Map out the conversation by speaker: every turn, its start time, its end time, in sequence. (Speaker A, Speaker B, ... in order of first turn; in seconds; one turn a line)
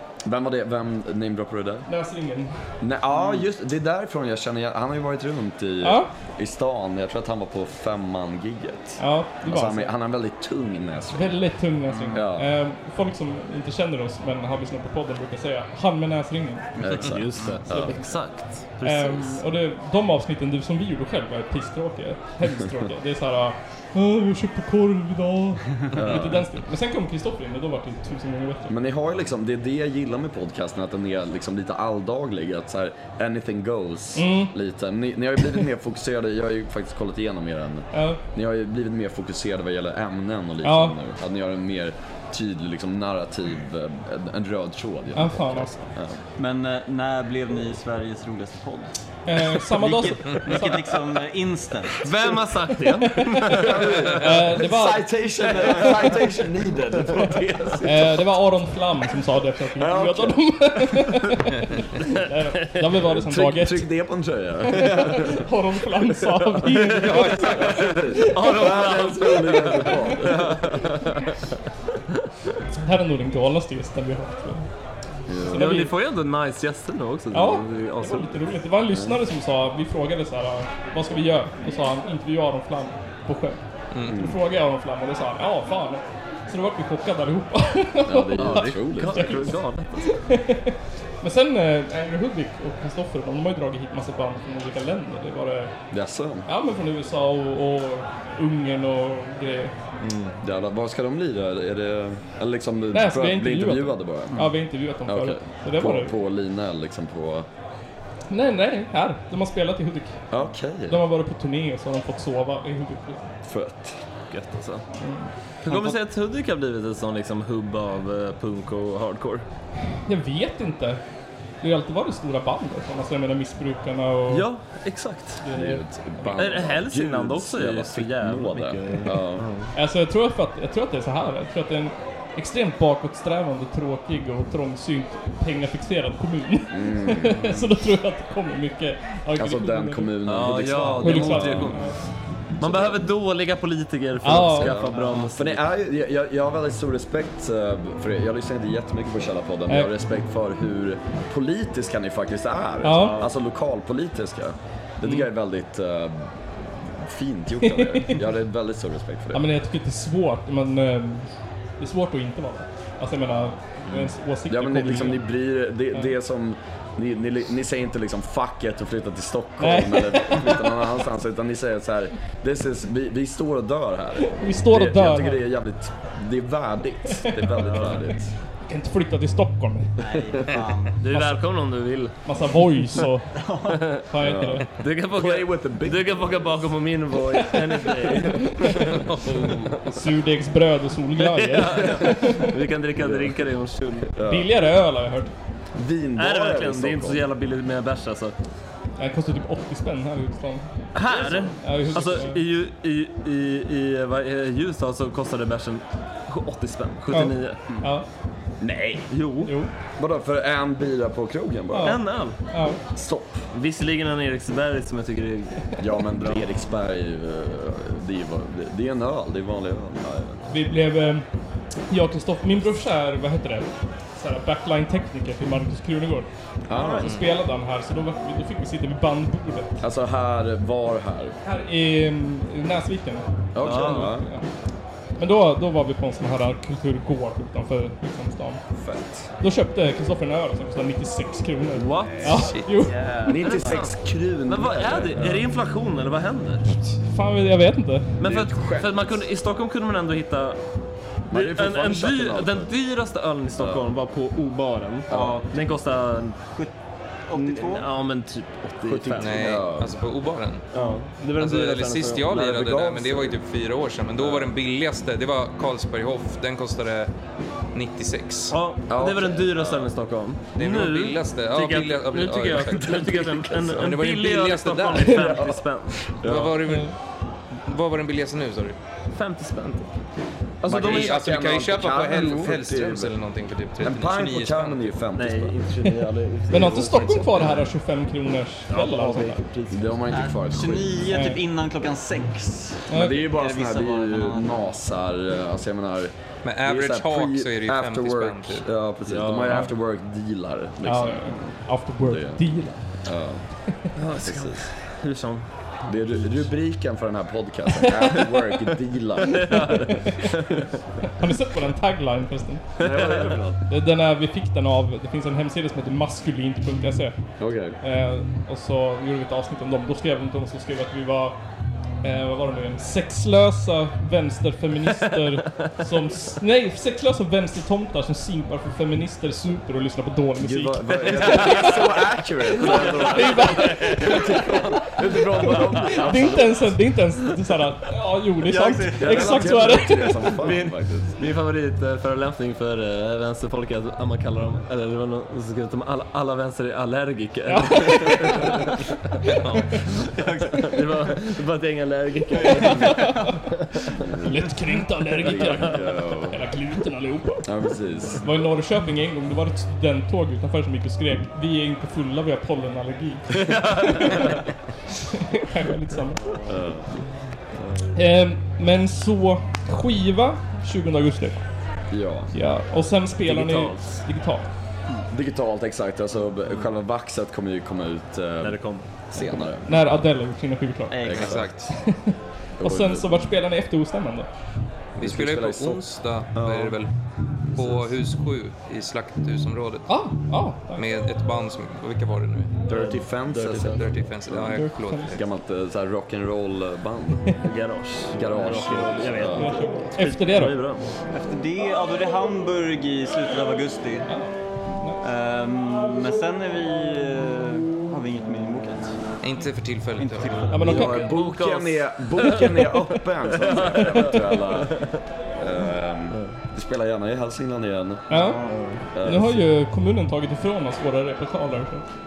Speaker A: 0.2-1.9
Speaker B: 1.9-2.6
Speaker A: 2.8-11.4
Speaker C: 3.1-3.4
Speaker B: 5.8-6.1
Speaker B: 9.0-9.9
Speaker B: 11.1-16.8
Speaker C: 11.9-12.2
Speaker A: 12.1-12.5
Speaker A: 16.8-17.9
Speaker D: 16.9-19.4
Speaker B: 17.7-18.1
Speaker B: 18.8-28.8
Speaker A: 25.9-26.5
Speaker A: 28.7-46.2
Speaker B: 34.1-34.5
Speaker B: 37.9-38.2
Speaker B: 40.6-41.0
Speaker B: 45.1-45.7
Speaker C: 46.4-48.9
Speaker B: 49.3-50.9
Speaker C: 49.6-52.3
Speaker D: 52.0-54.2
Speaker B: 53.0-55.2
Speaker A: 53.5-58.2
Speaker C: 55.4-56.5
Speaker B: 57.8-63.9
Speaker A: 59.8-61.0
Speaker D: 62.6-63.0
Speaker A: 63.1-65.4
Speaker B: 64.7-68.6
Speaker E: 66.9-67.9
Speaker A: 67.0-70.8
Speaker D: 68.2-71.3
Speaker B: 69.8-70.1
Speaker B: 72.8-74.7
Speaker A: 75.3-75.9
Speaker B: 75.4-76.0
Speaker D: 75.5-78.3
Speaker B: 77.3-95.7
Speaker A: 78.9-79.2
Speaker E: 83.9-84.2
Speaker A: 84.1-84.4
Speaker A: 88.0-89.5
Speaker D: 88.4-90.1
Speaker A: 95.9-96.5
Speaker B: 96.5-99.7
Speaker D: 100.0-100.4
Speaker A: 100.4-104.4
Speaker B: 102.9-106.2
Speaker A: 105.0-107.5
Speaker B: 108.3-110.2
Speaker A: 110.3-111.0
Speaker B: 110.9-113.3
Speaker A: 113.4-114.0
Speaker D: 114.3-114.8
Speaker B: 115.0-116.0
Speaker D: 115.6-119.5
Speaker B: 120.1-121.0
Speaker B: 121.6-124.5
Speaker D: 124.3-125.4
Speaker B: 125.4-126.4
Speaker A: 125.5-129.5
Speaker D: 126.3-129.7
Speaker B: 129.7-142.0
Speaker A: 136.7-137.6
Speaker A: 139.3-141.8
Speaker D: 140.2-141.9
Speaker A: 142.6-143.1
Speaker D: 142.6-145.6
Speaker B: 144.2-144.8
Speaker A: 144.3-159.4
Speaker C: 144.9-145.2
Speaker B: 149.7-149.9
Speaker B: 152.8-153.2
Speaker D: 152.9-153.3
Speaker B: 157.6-158.2
Speaker B: 159.3-161.3
Speaker B: 161.8-165.3
Speaker A: 164.5-178.3
Speaker B: 169.6-170.8
Speaker B: 174.2-175.4
Speaker B: 177.2-177.5
Speaker D: 177.6-178.1
Speaker B: 178.7-179.9
Speaker C: 180.0-181.0
Speaker A: 180.1-180.6
Speaker D: 181.0-182.1
Speaker B: 181.1-181.4
Speaker B: 182.2-183.3
Speaker C: 183.3-184.0
Speaker B: 184.1-184.7
Speaker A: 184.2-186.8
Speaker D: 184.8-189.1
Speaker B: 187.7-188.9
Speaker E: 188.8-189.8
Speaker B: 189.9-192.5
Speaker D: 191.2-194.1
Speaker A: 193.0-193.4
Speaker A: 194.2-194.5
Speaker B: 194.2-195.3
Speaker A: 195.8-197.3
Speaker D: 196.2-198.3
Speaker B: 199.0-200.7
Speaker D: 200.9-207.6
Speaker B: 201.6-202.4
Speaker B: 207.1-208.1
Speaker A: 208.6-209.1
Speaker D: 209.1-209.5
Speaker B: 209.4-209.7
Speaker A: 210.0-212.0
Speaker B: 211.7-212.8
Speaker D: 211.8-212.4
Speaker A: 212.9-213.5
Speaker D: 213.5-216.4
Speaker A: 215.8-220.6
Speaker B: 220.5-221.3
Speaker B: 221.9-226.3
Speaker A: 226.7-227.2
Speaker D: 226.7-227.0
Speaker B: 227.0-229.8
Speaker A: 229.8-231.4
Speaker B: 231.4-234.5
Speaker A: 233.6-234.3
Speaker D: 233.6-234.2
Speaker B: 235.2-238.6
Speaker A: 238.8-239.3
Speaker B: 239.4-242.9
Speaker D: 241.8-242.6
Speaker E: 242.4-242.9
Speaker C: 242.8-243.8
Speaker D: 243.3-243.9
Speaker A: 243.3-245.5
Speaker D: 244.5-246.8
Speaker B: 247.1-248.2
Speaker D: 248.2-250.6
Speaker A: 248.2-249.2
Speaker A: 251.3-252.7
Speaker D: 251.3-256.4
Speaker A: 253.6-253.9
Speaker A: 255.1-255.4
Speaker C: 255.1-255.5
Speaker C: 257.3-257.9
Speaker D: 257.4-259.7
Speaker A: 258.8-259.9
Speaker E: 259.2-260.7
Speaker D: 260.7-262.5
Speaker E: 261.4-267.1
Speaker A: 262.3-263.4
Speaker A: 264.2-264.5
Speaker E: 267.7-268.6
Speaker D: 268.5-276.2
Speaker A: 268.9-269.9
Speaker E: 270.6-275.3
Speaker A: 272.9-274.0
Speaker A: 274.9-276.6
Speaker E: 276.2-277.0
Speaker B: 276.7-276.9
Speaker E: 277.7-278.8
Speaker D: 279.1-279.9
Speaker D: 280.6-281.4
Speaker A: 280.6-283.1
Speaker E: 280.7-284.9
Speaker D: 282.2-282.5
Speaker A: 283.8-285.6
Speaker D: 285.2-287.6
Speaker B: 286.5-289.4
Speaker D: 288.7-290.0
Speaker A: 289.7-291.2
Speaker C: 290.1-294.5
Speaker B: 291.1-291.4
Speaker B: 292.9-293.3
Speaker A: 292.9-303.4
Speaker E: 296.4-298.7
Speaker D: 299.1-299.6
Speaker B: 300.8-302.8
Speaker D: 304.0-306.5
Speaker A: 304.2-304.6
Speaker A: 305.9-310.0
Speaker D: 309.3-310.7
Speaker B: 310.0-310.4
Speaker B: 311.0-312.6
Speaker D: 312.8-313.3
Speaker A: 312.8-313.6
Speaker B: 313.7-317.2
Speaker A: 317.4-317.8
Speaker B: 317.8-321.4
Speaker B: 322.0-331.9
Speaker A: 330.4-336.8
Speaker D: 331.1-331.8
Speaker B: 332.6-334.4
Speaker D: 332.7-334.2
Speaker B: 335.8-340.4
Speaker C: 338.4-339.6
Speaker A: 339.0-341.2
Speaker D: 340.4-348.8
Speaker B: 347.5-348.6
Speaker B: 349.2-349.8
Speaker C: 350.1-350.9
Speaker D: 350.6-353.1
Speaker C: 352.4-353.3
Speaker B: 352.4-357.5
Speaker A: 353.9-354.4
Speaker A: 355.2-356.4
Speaker A: 357.4-358.3
Speaker B: 358.1-364.4
Speaker D: 363.7-364.3
Speaker B: 365.1-366.2
Speaker A: 366.5-366.9
Speaker B: 367.9-371.4
Speaker A: 371.9-372.3
Speaker B: 372.3-374.5
Speaker D: 373.2-374.0
Speaker A: 375.1-378.6
Speaker D: 378.4-378.9
Speaker A: 379.1-380.0
Speaker B: 379.2-381.0
Speaker C: 380.9-381.5
Speaker A: 381.0-381.5
Speaker E: 381.1-381.7
Speaker B: 381.7-384.3
Speaker A: 382.6-383.2
Speaker E: 385.0-386.9
Speaker A: 385.0-386.8
Speaker A: 387.5-388.0
Speaker E: 387.6-389.9
Speaker B: 389.9-390.9
Speaker E: 390.8-392.5
Speaker A: 392.7-397.3
Speaker D: 392.7-393.9
Speaker E: 393.7-395.2
Speaker B: 394.5-395.2
Speaker D: 397.4-400.9
Speaker A: 398.1-399.5
Speaker B: 399.3-400.6
Speaker C: 401.1-404.1
Speaker B: 404.1-405.0
Speaker C: 405.0-408.9
Speaker E: 409.2-410.6
Speaker C: 410.0-411.0
Speaker B: 410.5-411.3
Speaker A: 410.6-418.1
Speaker D: 410.7-412.5
Speaker B: 412.4-412.7
Speaker D: 413.4-415.0
Speaker C: 418.1-418.6
Speaker B: 418.1-421.9
Speaker D: 418.5-418.9
Speaker A: 418.9-419.5